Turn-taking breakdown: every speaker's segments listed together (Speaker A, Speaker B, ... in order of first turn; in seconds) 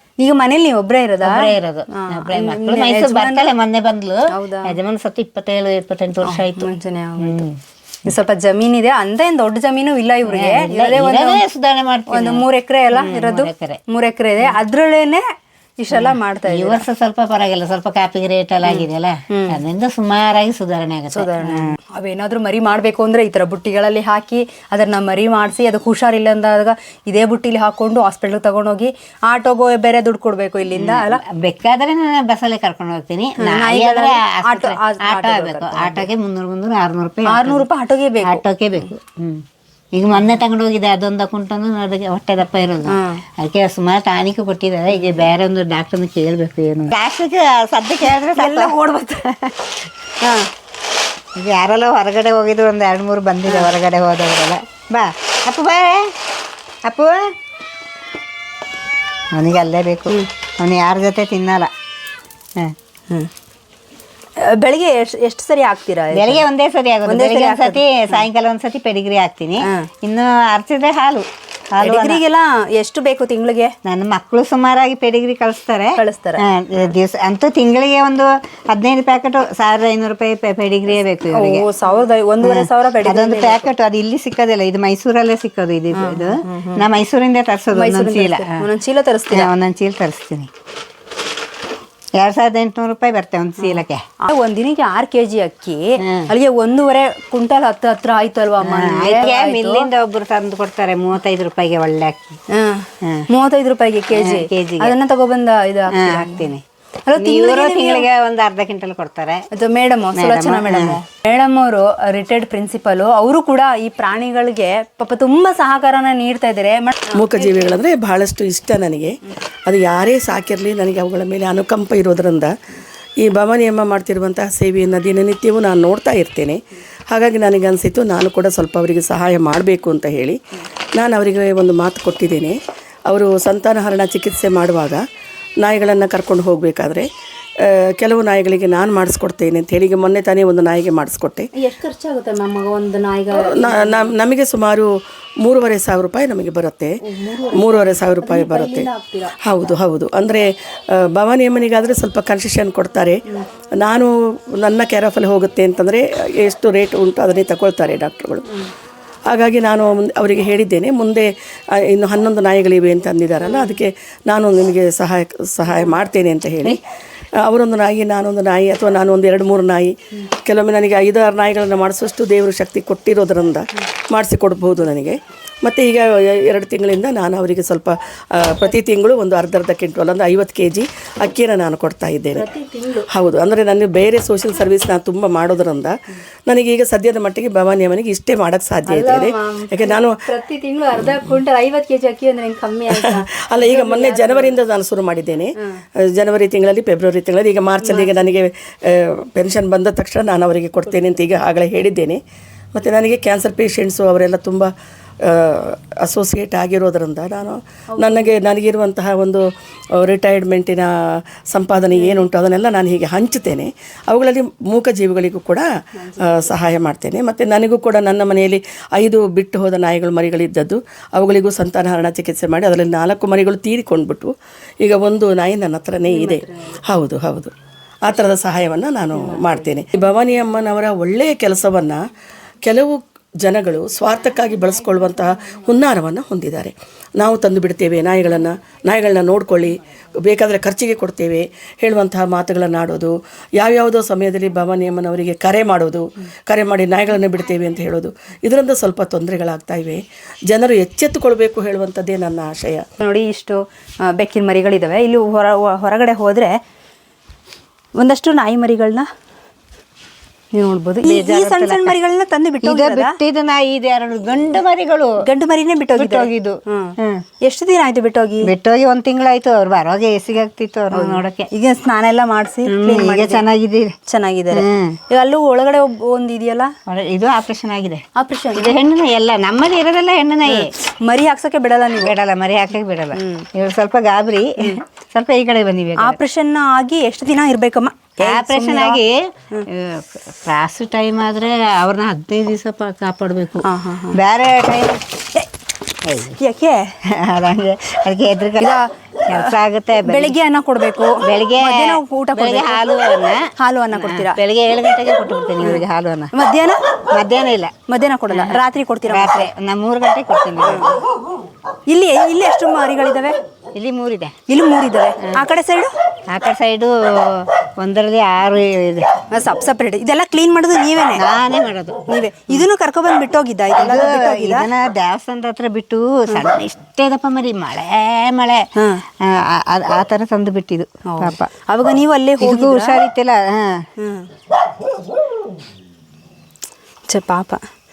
Speaker A: 0.2-3.5, 4.3-4.7, 6.2-7.4, 8.0-11.4, 12.1-15.2, 15.8-16.8, 18.6-19.6, 21.1-31.2, 33.4-36.0, 37.2-38.4, 42.9-43.2, 44.9-45.2, 48.1-49.2, 50.2-50.5, 64.4-66.4, 67.0-68.2, 69.6-69.9, 71.8-73.7, 76.0-76.4, 81.3-83.6, 85.9-86.9, 87.7-89.5, 93.6-99.9, 102.5-106.5, 107.1-108.0, 109.5-117.5, 141.5-144.1, 147.0-149.3, 163.4-163.7, 182.3-183.1, 188.9-194.5, 197.8-198.1, 207.9-208.3, 211.9-212.3, 216.0-216.5, 226.1-226.8, 229.2-229.7, 253.0-256.6, 258.0-259.1, 260.5-263.2, 265.2-268.5, 270.9-273.4, 274.1-276.7, 278.1-278.8, 280.4-282.1, 283.1-283.5, 286.0-289.0, 293.6-294.2, 296.4-296.9, 298.6-299.5, 300.0-302.8, 303.6-304.4, 305.6-306.8, 307.9-309.5, 310.6-310.9, 311.9-313.4, 314.5-315.9, 319.3-321.2, 322.1-324.7, 328.8-329.0, 331.1-332.9, 334.0-334.3, 337.1-337.6
Speaker B: 1.2-7.6, 10.3-13.8, 15.9-21.8, 30.7-37.7, 38.2-49.9, 51.4-56.1, 56.8-57.3, 59.3-61.7, 66.1-72.2, 73.8-81.7, 82.4-88.7, 89.3-90.5, 92.2-94.0, 96.0-96.3, 98.6-102.4, 103.0-103.3, 104.1-105.0, 105.9-106.6, 107.2-109.5, 110.1-111.0, 261.0-262.0, 262.6-265.2, 265.9-267.2, 268.4-271.5, 272.6-273.9, 274.5-275.0, 276.9-280.7, 282.0-286.2, 288.2-295.2, 296.0-296.4, 297.0-300.4, 301.2-306.3, 307.1-307.7, 308.3-310.9, 313.7-314.4, 316.3-319.1, 321.1-322.6, 323.7-331.5, 332.4-333.9
Speaker C: 117.1-122.5, 123.2-130.4, 130.9-132.6, 133.1-135.0, 135.6-141.5, 143.3-144.9, 145.4-146.9, 147.5-148.9, 149.4-153.2, 153.8-158.5, 159.3-166.8, 167.3-169.9, 170.4-182.4, 183.1-190.2, 192.9-202.2, 202.7-204.7, 205.2-209.4, 209.9-215.7, 216.2-227.5, 228.1-232.0, 232.6-252.8